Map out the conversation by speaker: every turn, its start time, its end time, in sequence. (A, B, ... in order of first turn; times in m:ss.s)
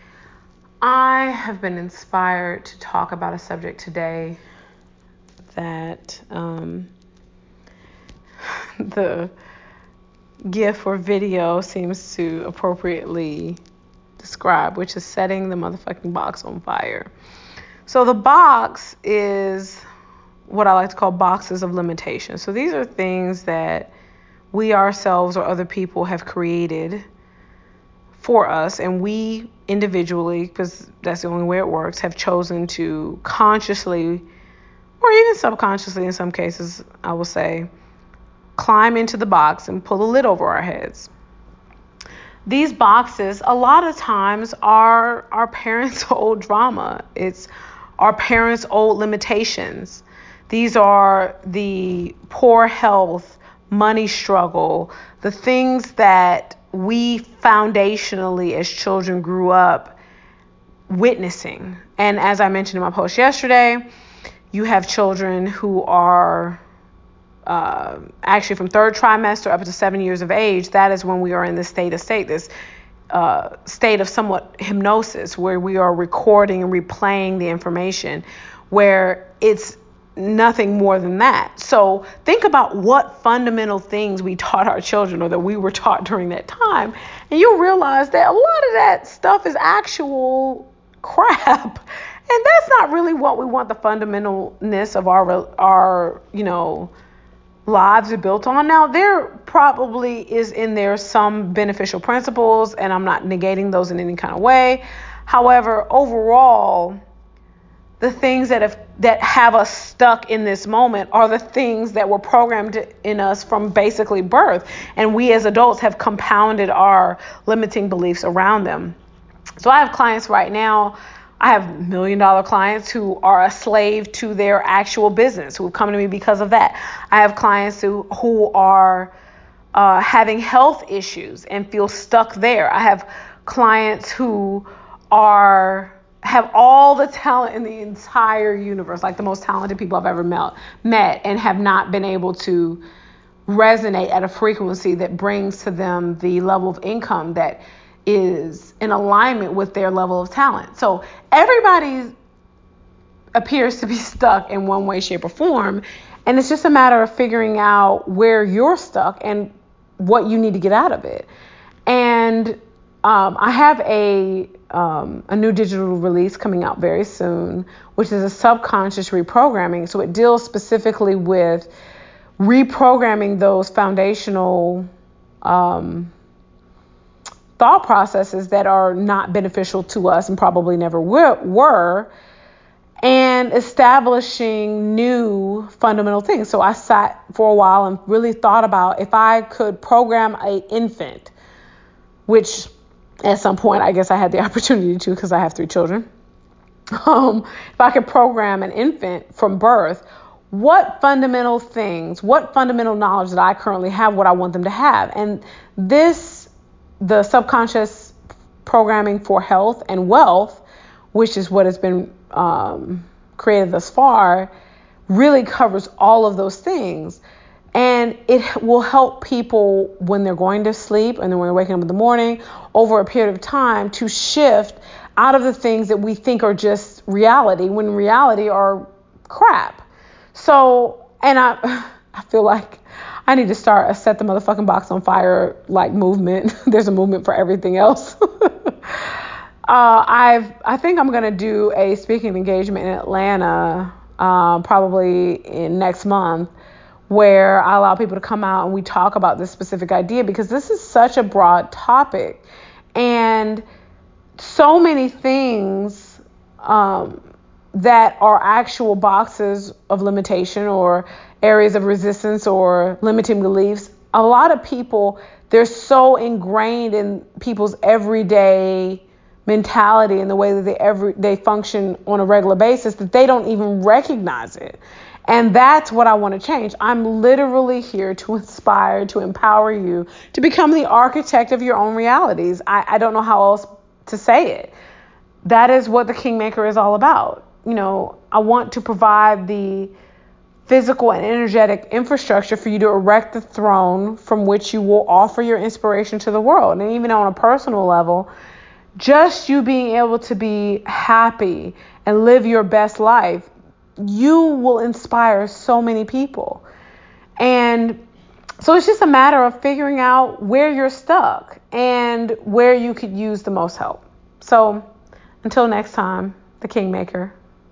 0:00.8-0:04.4 A
0:05.5-0:06.9 A
0:08.8-0:09.3 A
0:10.5-0:13.6 A
0:14.2-0:17.1 A
0:17.8-0:19.8 A
0:20.5-0:23.9 A
0:24.5-0:27.0 A
0:28.2-0:34.2 A
0:35.0-0:37.7 A
0:38.6-0:41.1 A
0:42.5-1:00.0 A
1:00.9-1:03.8 A
1:04.5-1:06.6 A
1:07.4-1:12.5 A
1:13.1-1:36.9 A
1:37.6-1:47.0 A
1:48.0-1:59.0 A
1:59.6-2:09.1 A
2:09.7-2:22.8 A
2:23.5-2:32.1 A
2:33.3-2:41.3 A
2:41.9-2:51.7 A
2:52.4-2:54.9 A
2:55.4-2:56.1 A
2:57.6-3:02.1 A
3:03.0-3:11.3 A
3:12.3-3:12.7 A
3:13.2-3:16.1 A
3:17.0-3:26.5 A
3:27.0-3:34.5 A
3:35.1-3:37.2 A
3:37.7-4:06.5 A
4:07.1-4:13.6 A
4:14.4-4:17.2 A
4:17.7-4:44.7 A
4:45.4-4:49.9 A
4:50.7-4:58.3 A
4:59.0-5:06.6 A
5:07.4-5:08.0 A
5:08.6-5:14.8 A
5:15.4-5:17.3 A